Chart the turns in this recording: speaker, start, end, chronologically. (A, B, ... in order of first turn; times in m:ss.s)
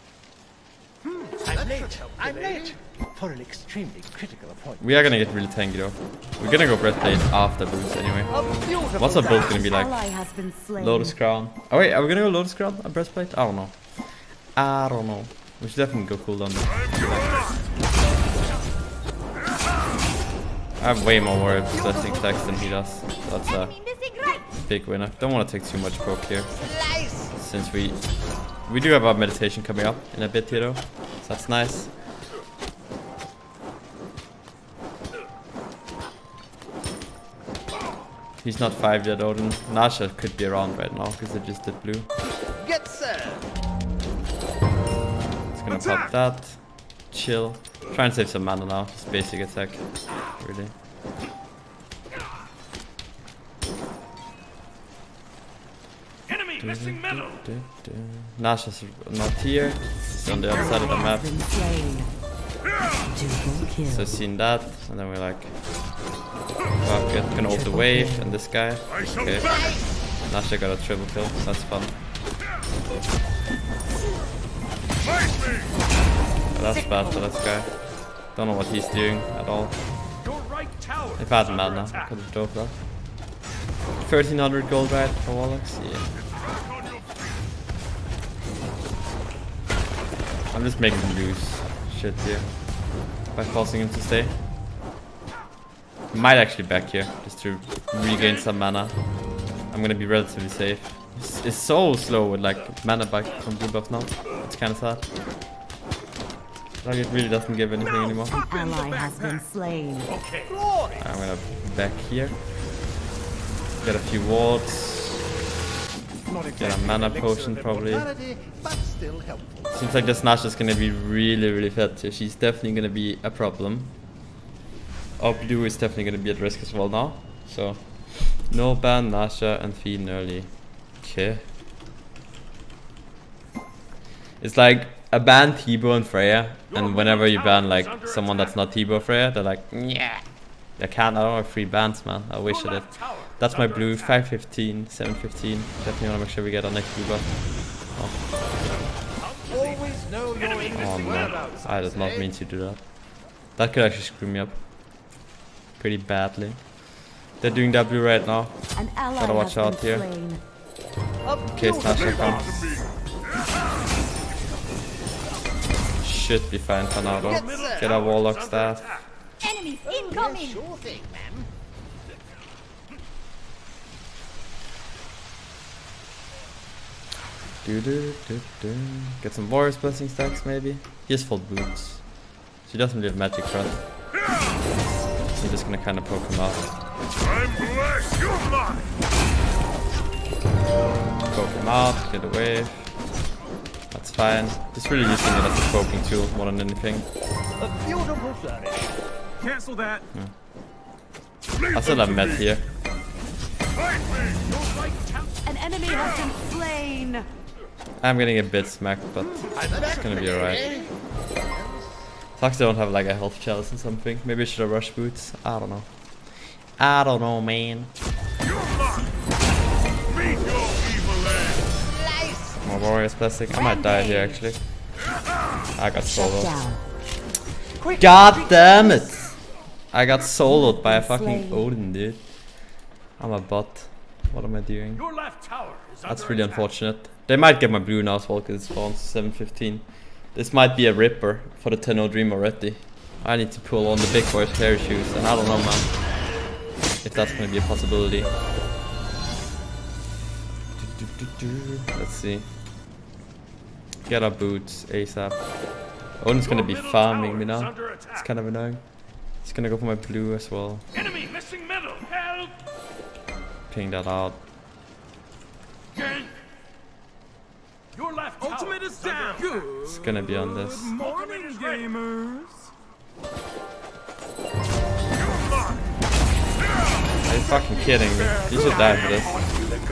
0:01.1-0:04.9 A
0:04.8-0:10.0 B
0:09.1-0:11.2 C
0:10.8-0:13.8 B
0:14.5-0:17.3 B
0:20.8-0:23.7 B
0:23.4-0:24.5 D
0:24.6-0:26.7 B
0:27.3-0:28.0 B
0:28.7-0:31.9 B
0:38.4-0:42.1 B
0:45.5-0:50.7 B
0:56.3-0:57.2 E
0:56.6-1:01.3 B
1:00.2-1:02.1 C
1:03.0-1:04.2 C
1:03.9-1:05.6 B
1:06.8-1:09.7 B
1:07.4-1:08.4 C
1:10.2-1:12.0 B
1:16.6-1:17.7 B
1:18.4-1:19.8 B
1:20.2-1:22.1 E
1:21.2-1:22.8 B
1:24.0-1:26.1 B
1:30.5-1:32.5 B
1:33.3-1:34.4 B
1:36.1-1:39.0 B
1:39.7-1:45.1 B
1:46.8-1:48.4 B
1:48.3-1:50.2 C
1:50.6-1:51.0 A
1:51.0-1:52.4 B
1:53.8-1:55.3 B
1:56.6-1:58.1 B
1:57.2-1:59.7 A
1:59.7-2:03.9 B
2:05.2-2:11.4 B
2:14.4-2:20.2 B
2:16.7-2:18.5 E
2:20.8-2:28.2 B
2:22.5-2:24.2 E
2:29.4-2:29.7 E
2:29.5-2:32.2 A
2:30.7-2:32.8 B
2:33.6-2:34.6 B
2:35.8-2:36.8 B
2:37.4-2:38.6 B
2:38.7-2:40.4 C
2:39.2-2:40.1 B
2:41.4-2:42.8 B
2:46.0-2:49.0 B
2:47.2-2:49.1 E
2:49.4-2:50.6 D
2:49.9-2:51.5 A
2:57.6-3:02.1 B
3:02.6-3:03.9 B
3:05.3-3:06.7 B
3:11.3-3:12.9 B
3:13.9-3:17.1 B
3:17.6-3:19.0 A
3:21.7-3:22.6 B
3:24.4-3:25.3 E
3:25.4-3:27.3 C
3:28.0-3:30.7 B
3:29.6-3:30.9 A
3:32.4-3:35.9 B
3:36.8-3:37.9 B
3:42.6-3:44.6 B
3:43.5-3:44.4 C
3:45.8-3:46.6 B
3:46.0-3:46.8 C
3:47.8-3:48.8 A
3:48.0-3:49.3 B
3:49.9-3:52.2 B
3:50.4-3:51.7 C
3:53.2-3:55.0 B
3:55.0-3:56.7 E
3:56.1-4:05.9 B
4:07.0-4:08.3 B
4:10.8-4:12.5 B
4:14.1-4:15.4 B
4:16.2-4:18.8 B
4:16.5-4:18.3 E
4:19.4-4:20.9 B
4:21.0-4:22.6 E
4:23.7-4:24.4 B
4:25.9-4:26.3 E
4:27.9-4:29.9 E
4:29.8-4:31.0 B
4:30.9-4:32.1 E
4:37.2-4:39.4 B